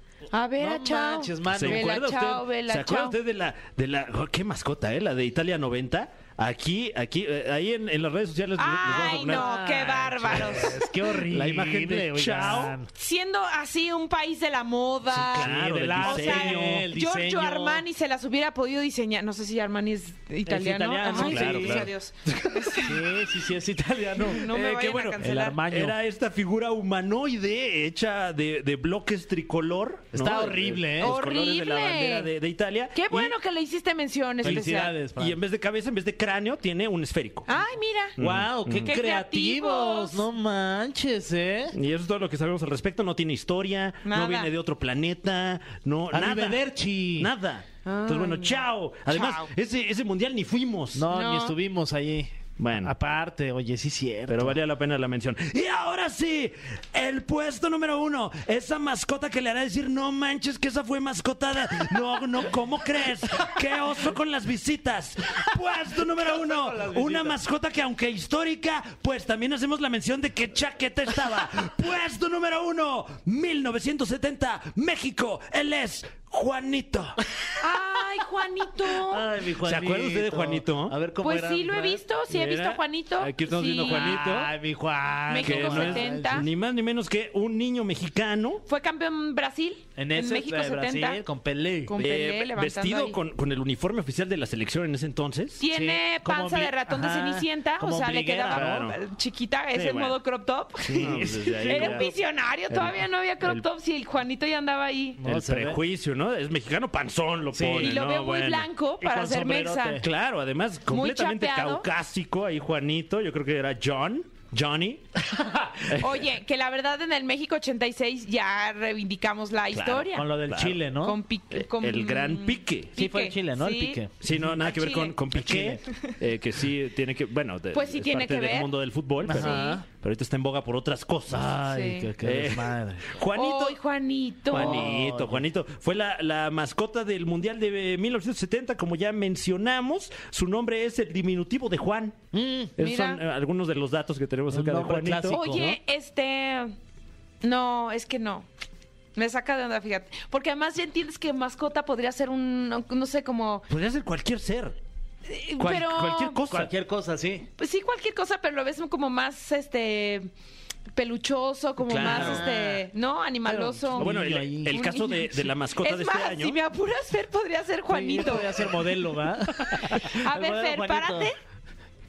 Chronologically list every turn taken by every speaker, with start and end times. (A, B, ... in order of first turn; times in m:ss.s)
0:00.3-0:03.2 A
0:00.6-0:01.9 B
0:01.5-0:12.8 C
0:08.6-0:10.9 A
0:08.9-0:12.9 B
0:13.0-0:15.5 A
0:15.1-0:16.9 C
0:15.4-0:17.8 B
0:16.0-0:23.1 A
0:20.5-0:21.9 B
0:21.1-0:22.7 C
0:22.8-0:24.5 B
0:24.3-0:25.6 A
0:24.4-0:33.4 C
0:25.2-0:26.0 B
0:30.1-0:31.2 B
0:31.0-0:32.3 A
0:32.9-0:35.0 A
0:34.4-0:35.4 B
0:34.4-0:37.6 C
0:37.5-0:38.2 A
0:38.2-0:39.0 C
0:38.2-0:41.8 B
0:38.8-0:40.3 A
0:41.7-0:51.0 C
0:44.0-0:44.5 A
0:46.1-0:47.3 B
0:47.8-0:49.5 A
0:50.9-0:54.6 B
0:51.1-0:51.6 A
0:52.6-0:52.9 C
0:54.3-1:17.2 C
1:06.3-1:07.4 B
1:17.6-1:19.3 A
1:19.1-1:22.0 B
1:19.6-1:21.0 C
1:21.2-1:24.2 A
1:22.3-1:24.6 C
1:23.9-1:26.4 B
1:25.3-1:26.5 A
1:25.4-1:28.6 C
1:28.7-1:31.2 A
1:30.0-1:32.0 B
1:31.9-1:33.2 A
1:32.0-1:35.6 C
1:35.6-1:45.2 A
1:35.7-1:38.9 B
1:38.5-1:39.0 C
1:39.7-1:40.2 C
1:40.8-1:42.1 B
1:41.0-1:42.2 C
1:42.7-1:43.6 C
1:45.2-1:45.8 B
1:45.3-1:48.7 C
1:47.5-1:48.0 B
1:47.8-1:50.0 A
1:49.0-1:50.0 B
1:50.0-1:55.0 C
1:50.9-1:51.9 A
1:55.4-1:55.8 B
1:55.9-1:56.2 C
1:56.0-2:00.3 A
1:59.7-2:00.8 C
2:00.1-2:01.2 B
2:01.0-2:04.0 A
2:01.5-2:03.0 C
2:03.0-2:04.6 B
2:04.2-2:11.6 C
2:04.6-2:05.2 A
2:05.3-2:05.8 B
2:07.7-2:08.8 A
2:09.2-2:09.8 B
2:09.3-2:09.8 A
2:11.3-2:13.1 B
2:11.6-2:12.1 A
2:12.2-2:13.8 C
2:13.3-2:14.9 A
2:14.5-2:22.2 C
2:14.5-2:15.4 B
2:22.3-2:22.8 B
2:22.8-2:25.7 C
2:22.8-2:23.2 A
2:24.5-2:25.7 B
2:25.3-2:26.8 A
2:27.4-2:28.5 A
2:29.2-2:33.7 A
2:33.7-2:34.8 C
2:35.3-2:36.4 A
2:35.6-2:36.7 C
2:36.5-2:37.5 B
2:37.6-2:40.3 A
2:41.0-2:44.2 A
2:41.9-2:42.5 C
2:42.0-2:42.8 B
2:43.4-2:44.8 B
2:44.0-2:46.6 C
2:44.7-2:48.8 A
2:47.9-2:51.3 B
2:49.6-2:50.0 C
2:50.0-2:51.4 A